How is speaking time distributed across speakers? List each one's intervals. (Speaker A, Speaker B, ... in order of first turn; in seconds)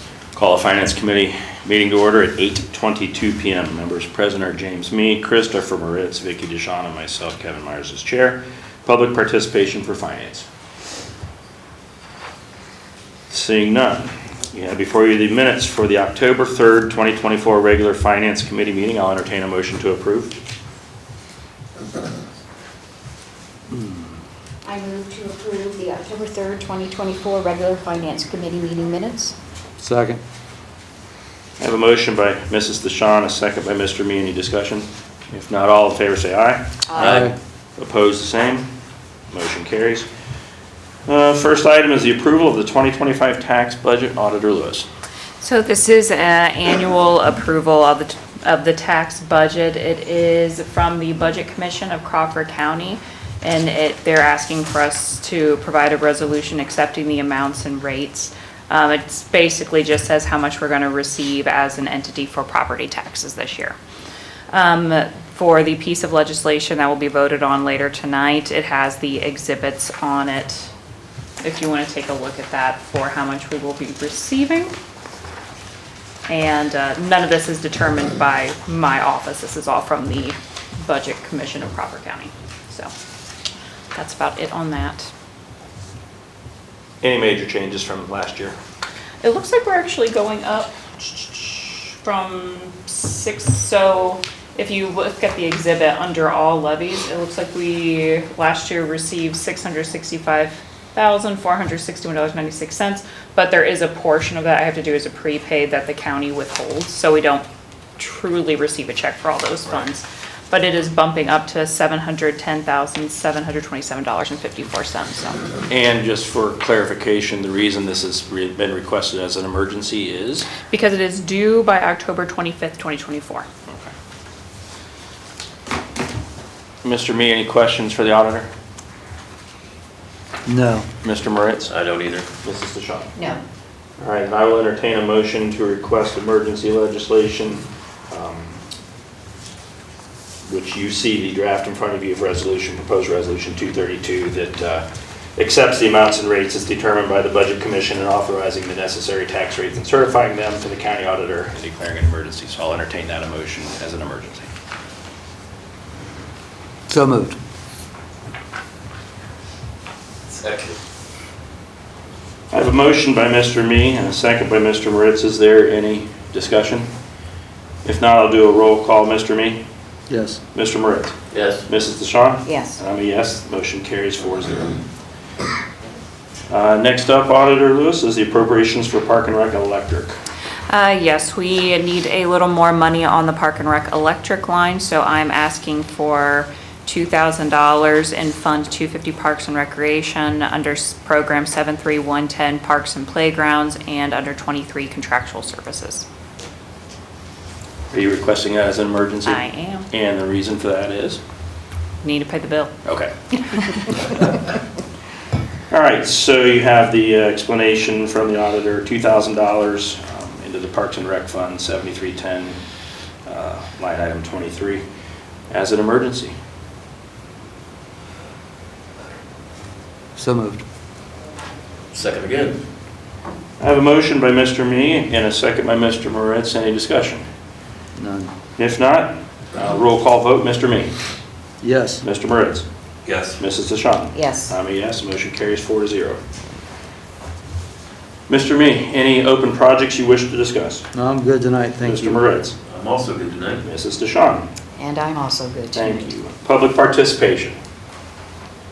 Speaker A: 0.3-10.5, 13.3-20.4, 31.6-36.6, 37.8-38.7, 39.3-40.1, 41.1-44.9, 87.0-88.5, 115.7-120.5, 126.8-128.5, 131.0-131.7, 132.4-133.1, 134.0-138.6, 140.5-144.9, 145.4-154.5, 162.5-166.9, 167.8-169.6, 170.5-174.8, 176.5-180.2, 197.9-201.2, 202.8-203.1, 205.7-212.6, 213.3-214.8, 215.5-216.3, 223.6-227.2, 228.6-230.9, 232.0-232.7, 233.4-236.2, 238.3-240.9, 241.8-242.6, 243.6-244.5, 245.8-247.6
Speaker B: 24.6-29.4, 133.2-133.4, 172.4-172.8, 234.1-234.6, 244.8-246.1
Speaker C: 29.8-30.2, 37.0-37.4, 130.5-130.9, 156.9-157.4, 170.1-170.4, 220.2-220.6, 228.0-228.3, 231.6-232.0, 240.9-242.2
Speaker D: 37.0-37.3, 131.7-132.3, 160.3-160.8, 171.3-171.7, 221.9-222.6, 233.1-233.4, 242.7-243.6
Speaker E: 45.4-63.8, 64.5-70.7, 71.4-74.7, 76.3-82.9, 83.9-85.1, 89.2-107.5, 108.0-115.4, 120.7-123.5, 180.7-196.1, 199.2-199.9, 202.0-202.8